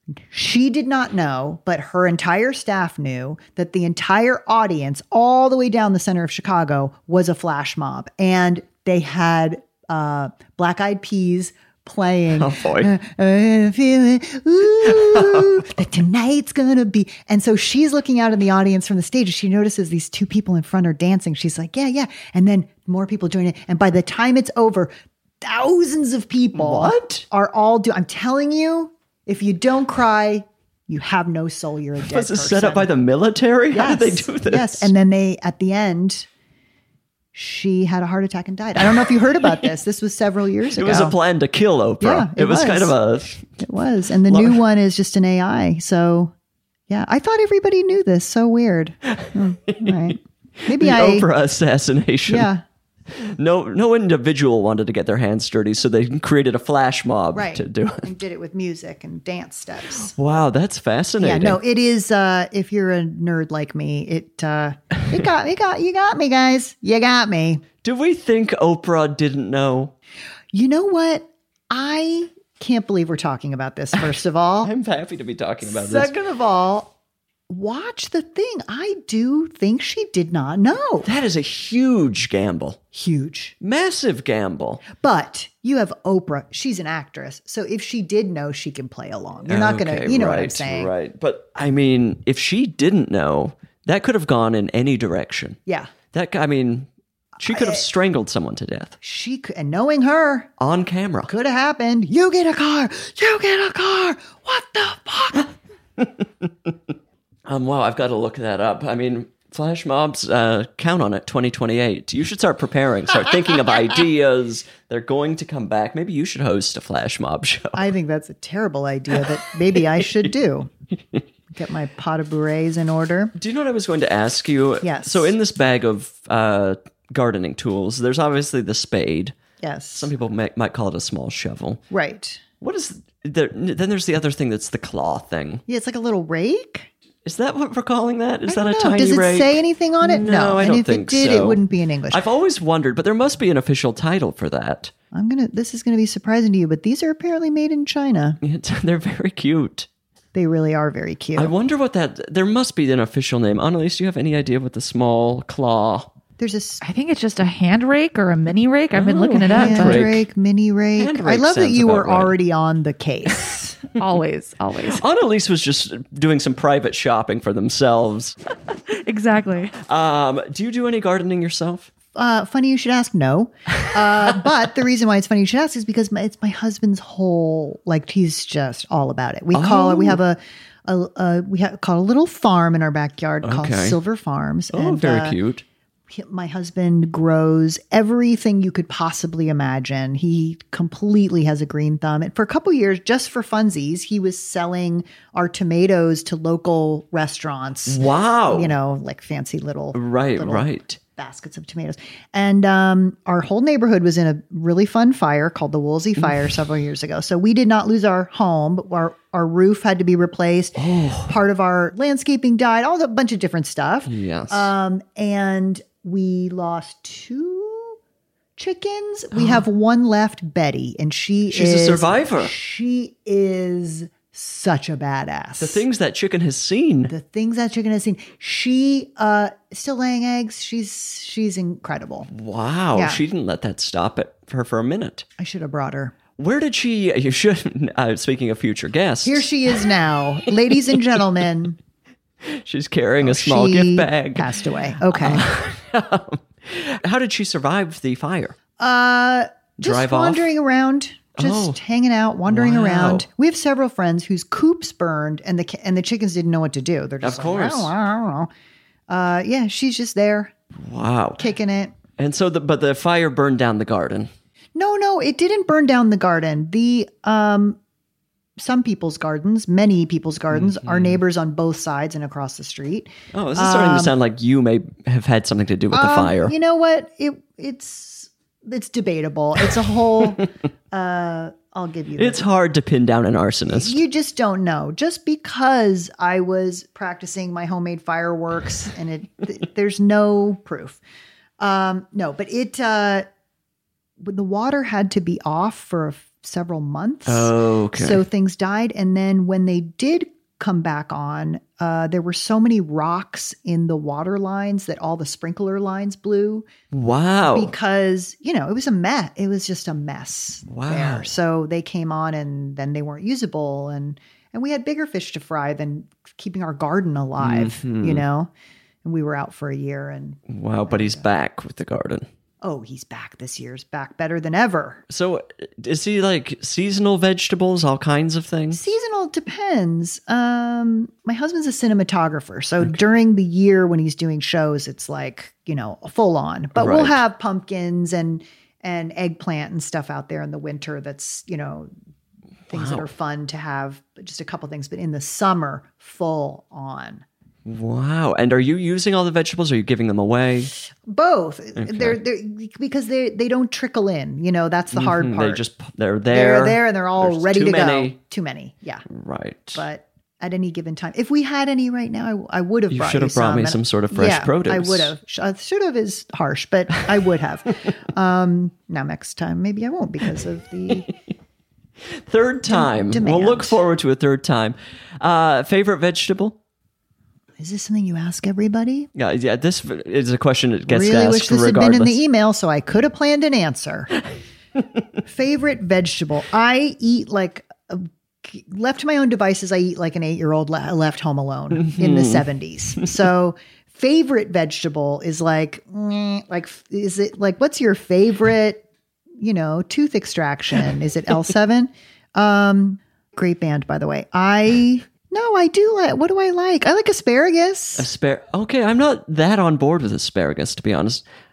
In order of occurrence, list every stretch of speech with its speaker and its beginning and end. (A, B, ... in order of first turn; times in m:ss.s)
0:00.3-0:24.9 A
0:12.4-0:12.9 B
0:14.8-0:15.6 B
0:25.4-0:32.9 A
0:26.6-0:27.2 B
0:32.0-0:34.9 B
0:33.7-0:36.3 A
0:37.3-0:41.2 A
0:40.7-0:43.6 B
0:42.0-0:43.0 A
0:43.6-0:46.3 A
0:44.3-0:44.6 B
0:46.9-0:51.3 A
0:50.7-0:52.5 B
0:52.3-0:52.6 A
0:53.1-0:58.1 B
0:57.3-1:00.1 A
1:00.0-1:01.6 B
1:01.2-1:07.6 A
1:07.8-1:09.9 B
1:10.5-1:14.7 A
1:14.6-1:16.1 B
1:15.6-1:16.9 A
1:17.5-1:21.1 A
1:21.0-1:22.8 B
1:22.9-1:23.6 A
1:23.6-1:24.8 B
1:24.9-1:30.9 A
1:29.5-1:35.6 B
1:35.7-1:35.9 A
1:36.1-1:36.9 B
1:37.4-1:39.0 B
1:37.4-1:37.8 A
1:39.0-1:40.5 A
1:40.6-1:41.3 B
1:41.3-1:45.5 A
1:46.0-1:46.7 B
1:47.5-1:57.8 B
1:57.8-2:00.7 A
2:01.0-2:01.2 B
2:01.5-2:03.3 A
2:03.4-2:09.4 B
2:04.8-2:05.3 A
2:09.6-2:10.1 A
2:10.0-2:11.8 B
2:11.9-2:12.4 A
2:12.6-2:15.6 B
2:15.7-2:16.9 A
2:17.2-2:24.9 B
2:18.5-2:22.2 A
2:25.1-2:28.4 A
2:28.4-2:29.9 B
2:30.3-2:31.5 A
2:31.4-2:36.1 B
2:36.4-2:36.8 A
2:36.8-2:40.1 C
2:38.9-2:40.2 B
2:39.5-2:43.8 A
2:41.0-2:42.4 B
2:44.0-2:45.0 C
2:44.9-2:48.4 B
2:48.9-2:49.7 C
2:49.8-2:51.9 B
2:52.2-3:05.4 A
2:59.5-3:00.2 B
3:03.4-3:04.0 B
3:04.7-3:05.6 B
3:06.1-3:38.0 A
3:17.9-3:18.7 B
3:19.9-3:21.0 B
3:30.8-3:31.3 B
3:34.1-3:34.7 B
3:38.6-3:45.8 A
3:39.3-3:39.6 B
3:41.5-3:42.5 B
3:45.6-3:47.1 B
3:47.1-3:52.3 A
3:52.3-3:55.2 B
3:53.0-3:53.2 A
3:55.4-3:56.1 A
3:56.4-3:59.5 B
3:59.2-4:01.8 A
4:02.4-4:04.5 B
4:03.2-4:05.5 A
4:05.0-4:08.6 B
4:08.8-4:18.5 A
4:09.8-4:10.5 B
4:11.4-4:11.8 B
4:12.5-4:13.3 B
4:17.2-4:17.9 B
4:19.1-4:20.5 A
4:20.8-4:21.4 B
4:21.4-4:21.9 A
4:22.2-4:24.3 B
4:24.8-4:27.8 A
4:28.6-4:34.1 A
4:30.5-4:31.2 B
4:33.3-4:36.5 B
4:35.9-4:42.5 A
4:42.2-4:44.0 B
4:43.7-4:51.0 A
4:51.6-4:53.3 A
4:54.2-5:06.7 A
4:57.3-4:58.2 B
5:06.9-5:07.7 B
5:07.5-5:18.5 A
5:10.7-5:11.3 B
5:17.4-5:18.2 B
5:19.0-5:21.3 A
5:20.5-5:22.3 B
5:22.6-5:25.0 A
5:25.1-5:28.8 B
5:28.7-5:41.9 A
5:36.8-5:37.2 B
5:42.7-5:47.2 A
5:42.7-5:43.1 B
5:47.6-5:50.7 B
5:51.1-5:55.6 A
5:51.8-5:52.2 B
5:54.9-5:58.2 B
5:56.3-5:59.0 A
5:59.1-5:59.8 B
5:59.7-6:11.1 A
6:02.9-6:05.2 B
6:12.1-6:16.6 B
6:12.7-6:13.8 A
6:17.6-6:19.1 A
6:19.2-6:22.2 B
6:20.9-6:24.1 A
6:25.2-6:38.8 A
6:31.8-6:32.4 B
6:39.4-6:48.1 A
6:48.0-6:51.2 B